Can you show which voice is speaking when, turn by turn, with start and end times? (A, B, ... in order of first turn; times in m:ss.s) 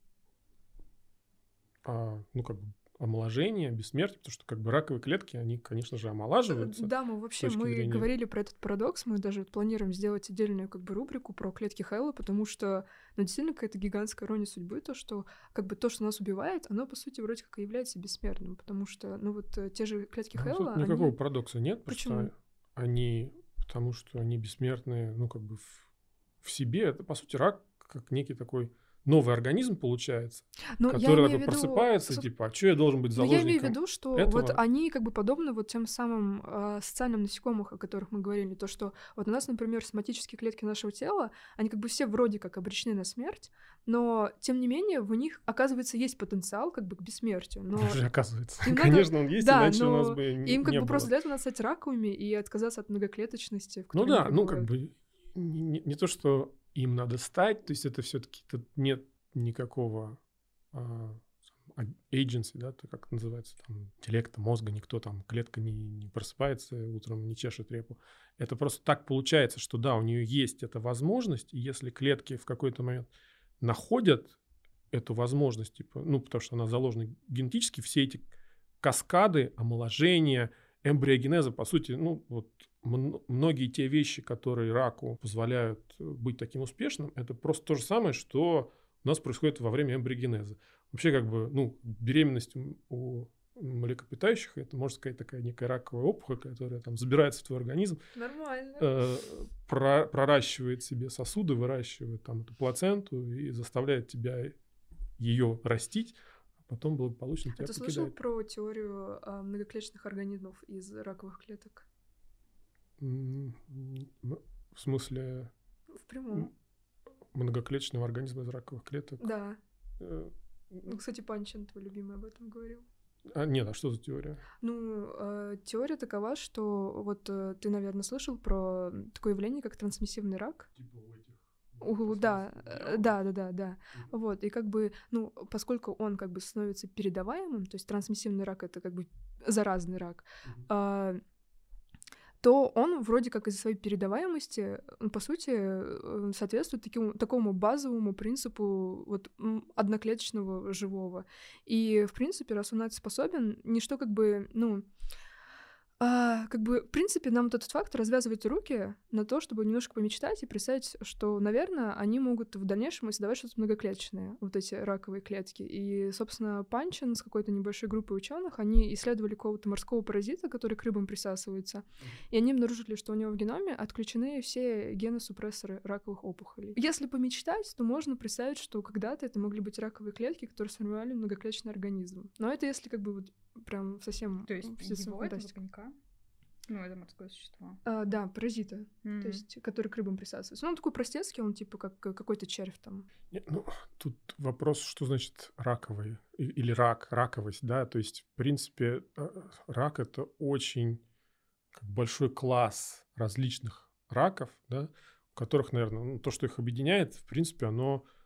0:01.8-0:08.1 A
0:06.5-0:21.2 B
0:20.4-0:25.9 A
0:21.9-0:22.3 B
0:26.4-0:34.6 A
0:30.8-0:32.3 B
0:33.2-0:48.0 B
0:47.8-0:51.1 A
0:48.6-0:54.7 B
0:53.9-1:00.2 A
1:00.7-1:13.1 A
1:13.6-1:14.4 A
1:14.9-1:18.3 A
1:18.8-1:38.0 A
1:38.2-1:38.9 B
1:38.8-1:44.6 A
1:45.2-1:46.2 A
1:46.7-1:48.1 A
1:47.6-1:51.9 B
1:53.0-1:55.5 A
1:56.0-1:56.5 B
1:57.3-1:59.2 A
1:59.2-1:59.6 B
2:00.0-2:00.9 A
2:00.9-2:02.8 B
2:03.3-2:04.4 A
2:04.6-2:10.7 B
2:10.8-2:13.2 A
2:11.8-2:21.2 B
2:22.4-2:34.9 B
2:36.0-3:05.5 B
3:04.5-3:05.9 C
3:06.7-3:07.8 C
3:07.8-3:13.1 B
3:09.0-3:09.4 C
3:13.3-3:21.0 A
3:21.7-3:28.0 A